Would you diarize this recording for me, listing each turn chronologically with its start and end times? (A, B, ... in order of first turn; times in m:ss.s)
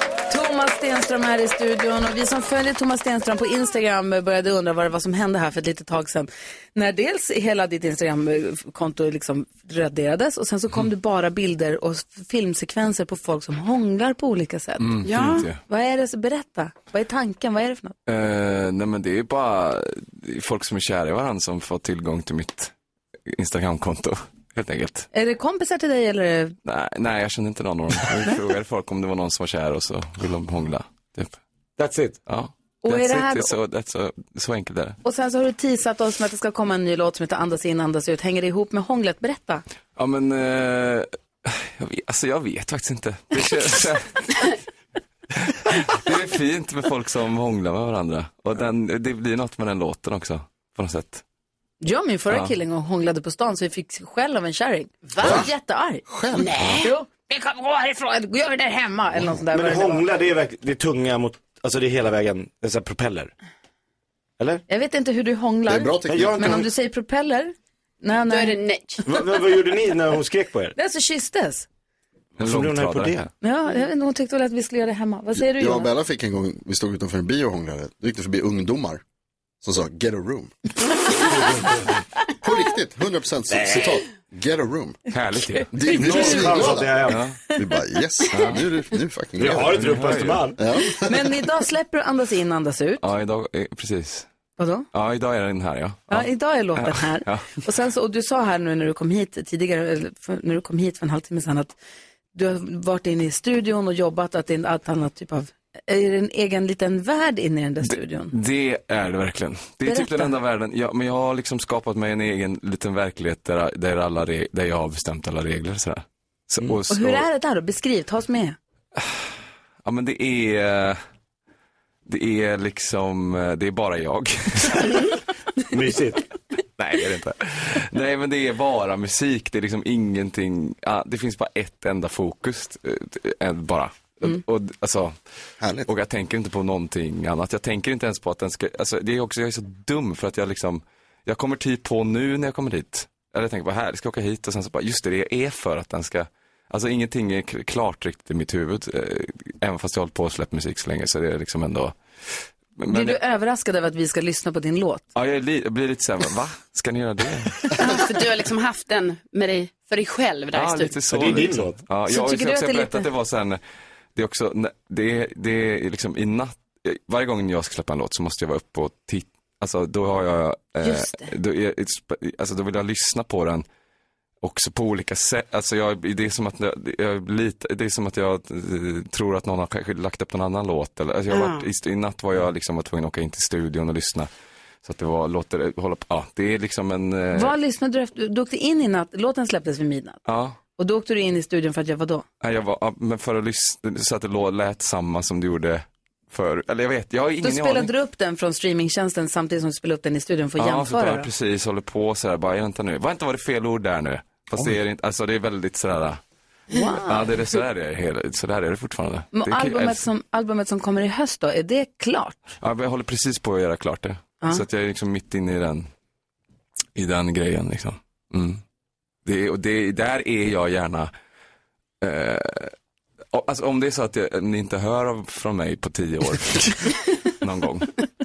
0:00.3-0:15.0 A
0:14.8-0:15.6 B
0:15.0-0:15.5 C
0:15.7-0:17.9 A
0:18.1-0:22.7 B
0:23.3-0:25.1 B
0:25.1-0:26.6 A
0:26.6-0:31.4 B
0:31.8-0:32.2 D
0:32.2-0:35.0 B
0:32.8-0:33.6 A
0:35.0-0:39.6 A
0:40.0-0:44.5 B
0:45.5-0:51.2 B
0:51.8-0:56.0 A
0:52.3-0:52.5 B
0:55.2-0:55.5 E
0:56.1-0:56.8 E
0:56.3-0:56.9 C
0:56.8-1:00.0 A
0:59.5-1:03.3 D
1:04.7-1:08.6 A
1:05.7-1:06.6 E
1:06.1-1:06.7 D
1:08.3-1:09.0 C
1:09.0-1:10.8 D
1:10.8-1:11.6 A
1:12.4-1:13.3 B
1:12.4-1:13.3 D
1:13.4-1:15.9 A
1:15.4-1:19.0 E
1:19.6-1:20.5 E
1:21.4-1:21.8 D
1:22.4-1:25.0 E
1:23.5-1:23.9 D
1:25.1-1:25.8 B
1:25.5-1:26.4 A
1:25.7-1:30.0 E
1:25.8-1:27.2 D
1:27.0-1:27.4 B
1:28.3-1:28.6 B
1:29.4-1:30.6 D
1:29.6-1:30.5 B
1:30.6-1:31.2 E
1:30.9-1:33.1 A
1:33.0-1:34.3 B
1:34.6-1:34.9 A
1:34.9-1:37.5 B
1:36.1-1:41.8 A
1:42.3-1:48.3 A
1:47.8-1:57.2 B
1:49.8-1:50.4 A
1:56.9-1:58.6 A
1:59.0-1:59.2 B
1:59.8-2:01.0 B
2:02.0-2:05.0 B
2:05.7-2:06.2 D
2:06.8-2:15.2 B
2:15.6-2:15.9 E
2:15.9-2:33.2 B
2:32.9-2:35.0 A
2:35.1-2:37.7 B
2:37.7-2:41.2 C
2:40.5-2:43.6 B
2:41.1-2:41.8 D
2:42.1-2:43.1 A
2:44.1-2:53.6 B
2:50.8-2:51.3 A
2:54.4-3:04.3 B
3:01.3-3:01.7 C
3:04.8-3:07.5 B
3:07.3-3:10.2 A
3:10.2-3:10.6 B
3:10.8-3:12.2 A
3:12.4-3:17.9 B
3:17.4-3:21.3 A
3:20.6-3:26.2 B
3:26.7-3:27.5 A
3:27.0-3:30.1 B
3:29.3-3:32.4 A
3:32.6-3:35.9 B
3:37.0-3:38.6 B
3:39.2-3:41.1 B
3:42.0-3:42.7 B
3:43.3-3:47.9 B